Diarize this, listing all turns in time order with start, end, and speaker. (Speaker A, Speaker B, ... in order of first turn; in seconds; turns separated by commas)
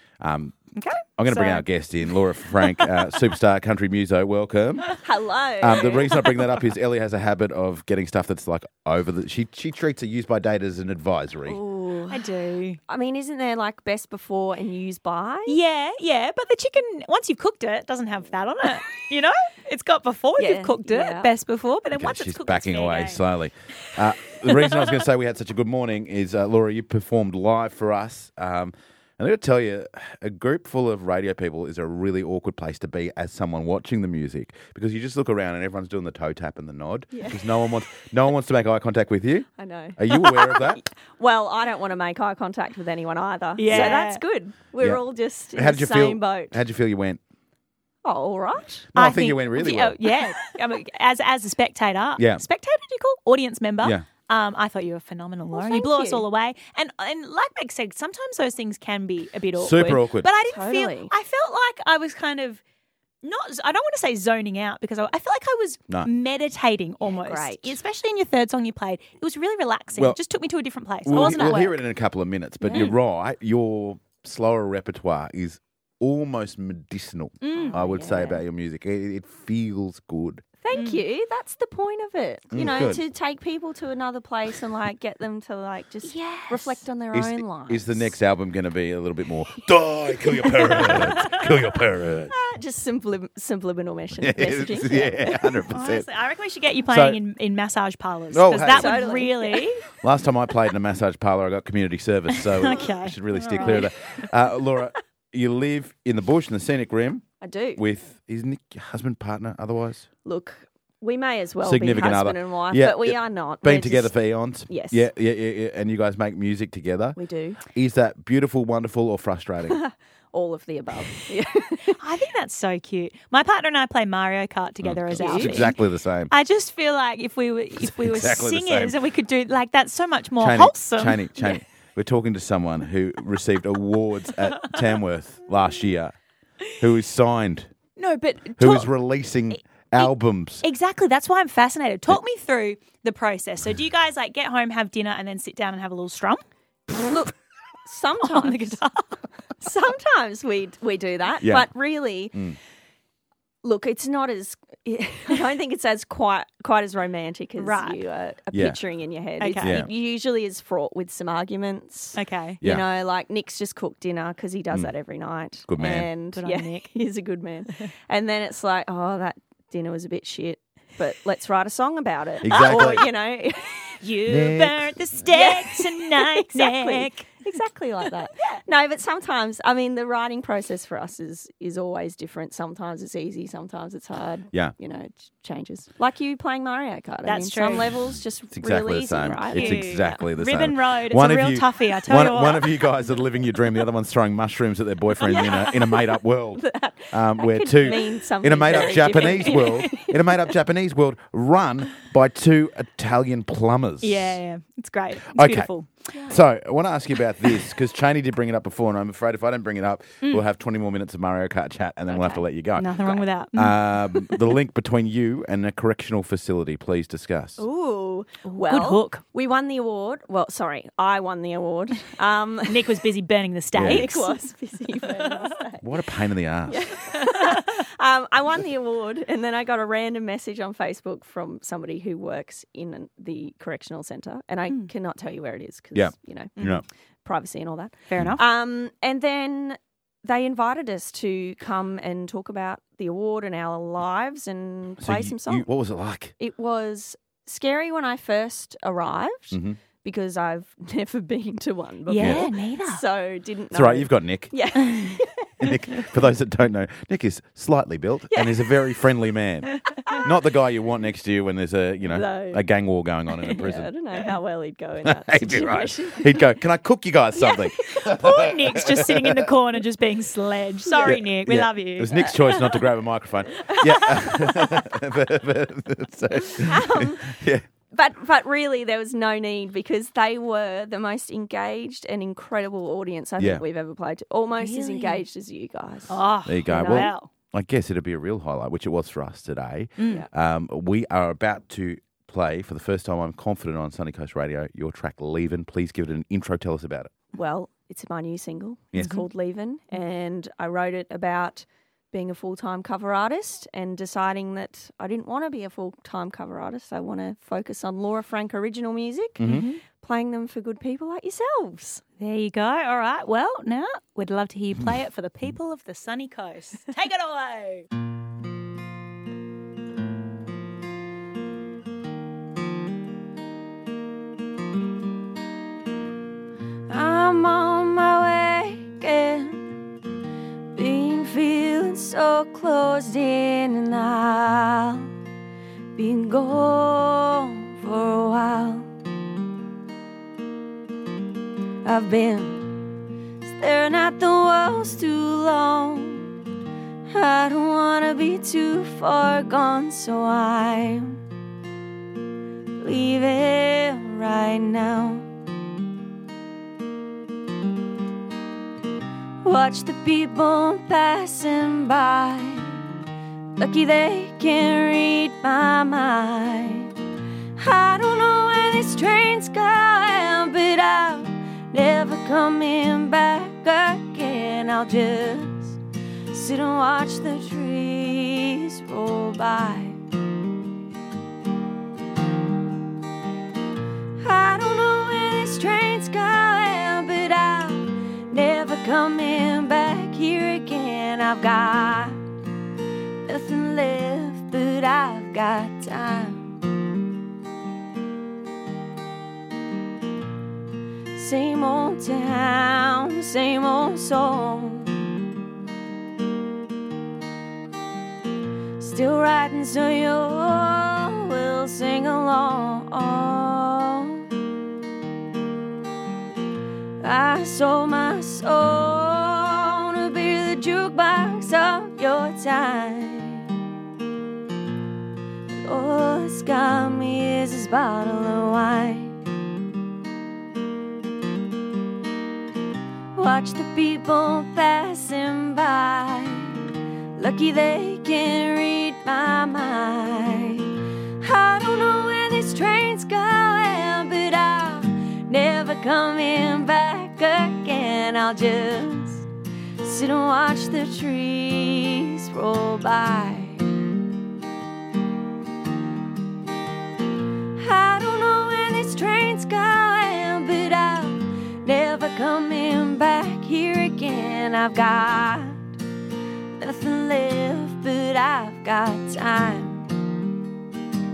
Speaker A: 0.2-0.6, Speaker B: 0.8-3.0, Speaker A: 1.2-5.0, Speaker C: 5.0-6.2, Speaker A: 5.6-11.6, Speaker C: 11.5-12.3, Speaker B: 12.1-12.8, Speaker C: 12.9-15.6, Speaker B: 15.5-23.2, Speaker C: 20.4-21.3, Speaker A: 22.0-40.8, Speaker B: 24.5-24.8, Speaker C: 37.1-37.4, Speaker C: 39.6-40.0, Speaker B: 40.2-40.6, Speaker C: 40.8-46.6, Speaker B: 43.6-44.2, Speaker A: 43.7-43.9, Speaker A: 44.8-47.2, Speaker C: 48.0-48.9, Speaker A: 48.9-50.0, Speaker B: 49.0-62.6, Speaker A: 52.2-52.4, Speaker C: 55.5-56.2, Speaker A: 59.5-60.3, Speaker C: 60.5-61.1, Speaker B: 63.2-71.8, Speaker C: 67.0-67.8, Speaker A: 71.0-80.4, Speaker C: 71.1-71.6, Speaker C: 72.6-72.9, Speaker B: 72.7-72.9, Speaker B: 77.4-77.8, Speaker C: 77.5-78.4, Speaker C: 80.6-88.2, Speaker B: 80.7-81.0, Speaker A: 82.5-83.0, Speaker B: 86.0-86.8, Speaker A: 87.1-92.3, Speaker B: 90.5-91.3, Speaker C: 92.3-95.4, Speaker A: 94.2-96.1, Speaker B: 95.4-99.9, Speaker A: 96.9-97.2, Speaker A: 98.3-99.0, Speaker C: 98.7-99.7, Speaker A: 100.0-107.2, Speaker B: 102.3-104.3, Speaker C: 107.4-107.8, Speaker A: 107.8-110.1, Speaker C: 110.2-115.1, Speaker A: 111.6-119.8, Speaker C: 117.2-117.6, Speaker C: 119.7-122.0, Speaker B: 121.8-131.6, Speaker A: 124.8-126.3, Speaker C: 125.2-125.7, Speaker A: 127.8-129.0, Speaker A: 130.4-136.2, Speaker A: 136.8-137.7, Speaker B: 138.0-138.9, Speaker A: 138.6-140.6, Speaker B: 139.9-146.4, Speaker C: 146.9-147.3, Speaker C: 147.9-148.8, Speaker B: 148.2-149.2, Speaker C: 149.6-152.4, Speaker A: 151.4-151.7, Speaker A: 152.3-152.6, Speaker C: 153.6-174.0, Speaker B: 157.6-158.0, Speaker A: 158.5-158.8, Speaker B: 159.4-159.8, Speaker A: 159.6-159.9, Speaker B: 162.2-162.6, Speaker A: 162.6-162.9, Speaker A: 165.7-166.1, Speaker B: 166.3-166.9, Speaker A: 172.4-173.1, Speaker B: 172.5-173.0, Speaker B: 174.0-177.5, Speaker A: 174.3-174.9, Speaker C: 175.2-190.2, Speaker B: 178.4-178.6, Speaker B: 187.2-187.9, Speaker A: 188.5-204.4, Speaker B: 189.5-192.8, Speaker B: 195.2-195.9, Speaker C: 195.3-195.7, Speaker C: 196.6-200.1, Speaker B: 198.7-200.0, Speaker B: 204.0-205.9, Speaker A: 205.3-205.7, Speaker A: 206.3-217.6, Speaker C: 212.1-212.4, Speaker B: 212.8-214.5, Speaker C: 217.6-223.1, Speaker B: 218.6-219.2, Speaker B: 222.7-224.4, Speaker A: 223.7-224.1, Speaker C: 223.8-225.9, Speaker B: 225.1-225.5, Speaker A: 225.8-226.9, Speaker C: 226.7-236.6, Speaker B: 227.1-227.8, Speaker A: 235.9-236.8, Speaker B: 236.6-236.8, Speaker C: 237.2-245.7, Speaker B: 238.1-238.4, Speaker A: 245.0-246.3, Speaker C: 246.4-256.0, Speaker A: 249.5-249.8, Speaker B: 252.1-253.0, Speaker A: 252.2-252.5, Speaker A: 253.7-254.6, Speaker A: 255.6-263.9, Speaker C: 258.3-258.9, Speaker C: 262.0-262.6, Speaker C: 263.5-266.6, Speaker A: 265.0-269.4, Speaker B: 267.4-272.9, Speaker C: 270.9-271.2, Speaker A: 271.0-277.6, Speaker C: 273.6-274.9, Speaker C: 276.6-277.4, Speaker C: 277.9-287.1, Speaker A: 283.4-283.6, Speaker B: 284.6-285.2, Speaker B: 286.1-287.3, Speaker A: 286.5-297.1, Speaker B: 290.0-290.3, Speaker C: 297.3-312.0, Speaker A: 298.9-299.2, Speaker B: 298.9-299.2, Speaker A: 309.4-309.8, Speaker B: 309.5-309.7, Speaker B: 312.2-317.9, Speaker C: 326.9-329.6, Speaker C: 330.7-335.1, Speaker C: 335.9-338.9, Speaker C: 341.8-342.8, Speaker C: 343.4-346.3, Speaker C: 347.1-351.2, Speaker C: 352.8-355.3, Speaker C: 359.4-362.9, Speaker C: 363.6-366.9, Speaker C: 367.6-380.0, Speaker C: 384.2-392.2, Speaker C: 393.2-396.6, Speaker C: 401.1-405.1, Speaker C: 408.8-414.3, Speaker C: 417.0-423.6, Speaker C: 425.6-429.2, Speaker C: 433.1-453.8, Speaker C: 457.6-465.8, Speaker C: 466.6-469.9